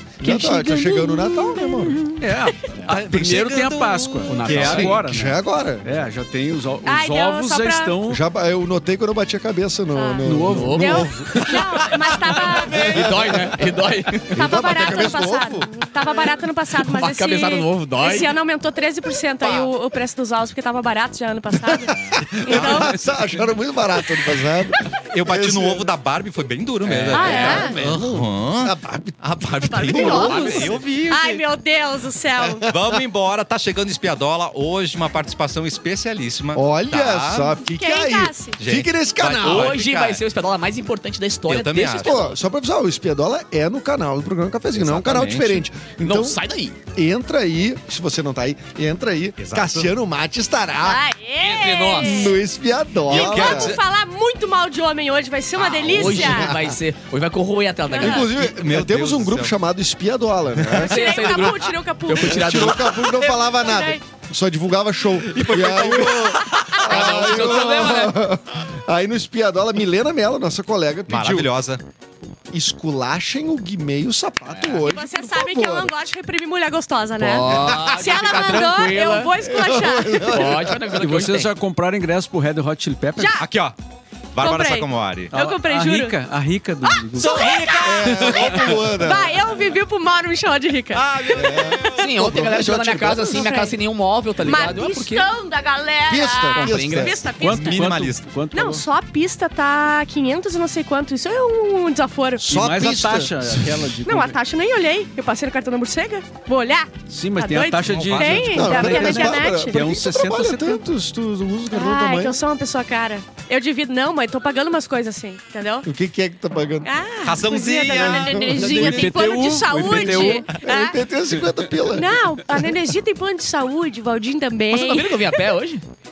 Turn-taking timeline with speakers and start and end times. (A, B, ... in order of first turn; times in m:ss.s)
0:00.2-0:02.1 A
0:00.2-0:00.7 B
0:00.2-0:02.5 C
0:02.2-0:08.2 D
0:02.9-0:05.0 E
0:04.3-0:05.0 B
0:04.6-0:05.8 A
0:06.8-0:07.9 C
0:08.1-0:13.7 A
0:09.9-0:13.0 C
0:10.2-0:11.1 D
0:10.4-0:11.5 B
0:12.4-0:14.4 B
0:14.3-0:15.7 A
0:14.3-0:23.0 C
0:16.8-0:18.4 B
0:21.6-0:25.9 A
0:22.5-0:23.2 E
0:25.1-0:31.4 E
0:26.8-0:27.8 B
0:27.1-0:27.8 C
0:27.2-0:30.7 A
0:29.6-0:32.6 C
0:29.9-0:30.8 B
0:32.4-0:33.0 A
0:32.6-0:37.5 E
0:36.5-0:39.8 A
0:37.6-0:38.6 C
0:38.6-0:40.2 E
0:39.4-0:42.4 B
0:41.5-0:42.2 E
0:41.9-0:46.4 A
0:44.7-0:45.6 E
0:46.0-0:46.8 B
0:46.9-0:51.0 A
0:49.4-0:49.9 E
0:50.8-0:52.4 C
0:51.4-0:52.3 B
0:52.0-0:53.8 A
0:53.0-0:53.8 E
0:53.1-0:56.5 C
0:55.6-0:58.4 B
0:55.9-0:56.8 A
0:57.9-0:58.3 C
0:58.0-1:01.0 A
0:58.3-0:59.6 E
1:00.6-1:00.9 E
1:00.7-1:03.1 B
1:00.8-1:04.0 C
1:02.2-1:11.5 A
1:05.3-1:07.7 E
1:05.6-1:06.1 B
1:06.2-1:06.8 C
1:06.7-1:08.2 B
1:11.1-1:11.8 E
1:12.5-1:15.9 A
1:14.5-1:14.8 B
1:14.8-1:20.4 C
1:17.2-1:19.3 B
1:17.5-1:18.2 A
1:19.4-1:21.0 A
1:20.3-1:21.5 B
1:20.9-1:23.4 D
1:23.2-1:23.4 C
1:23.4-1:23.8 E
1:24.3-1:25.3 E
1:24.4-1:26.2 C
1:25.3-1:27.4 D
1:26.8-1:31.9 C
1:27.2-1:28.6 E
1:27.8-1:29.4 A
1:28.1-1:28.6 D
1:30.9-1:32.1 E
1:31.3-1:33.5 A
1:31.9-1:35.3 B
1:33.2-1:33.8 C
1:34.4-1:37.9 C
1:36.1-1:37.2 A
1:36.5-1:37.2 B
1:37.4-1:38.8 D
1:37.5-1:38.2 E
1:38.5-1:42.4 C
1:42.4-1:43.5 A
1:42.5-1:44.4 D
1:44.0-1:49.8 C
1:47.1-1:50.8 D
1:47.8-1:48.8 E
1:48.5-1:52.4 A
1:51.7-1:55.9 C
1:55.8-1:56.9 A
1:56.8-2:01.0 C
1:57.2-1:59.2 E
1:57.9-1:58.5 A
1:58.5-2:00.5 D
1:59.9-2:00.6 E
2:00.6-2:02.2 A
2:01.3-2:01.6 D
2:01.9-2:05.4 C
2:04.7-2:05.8 B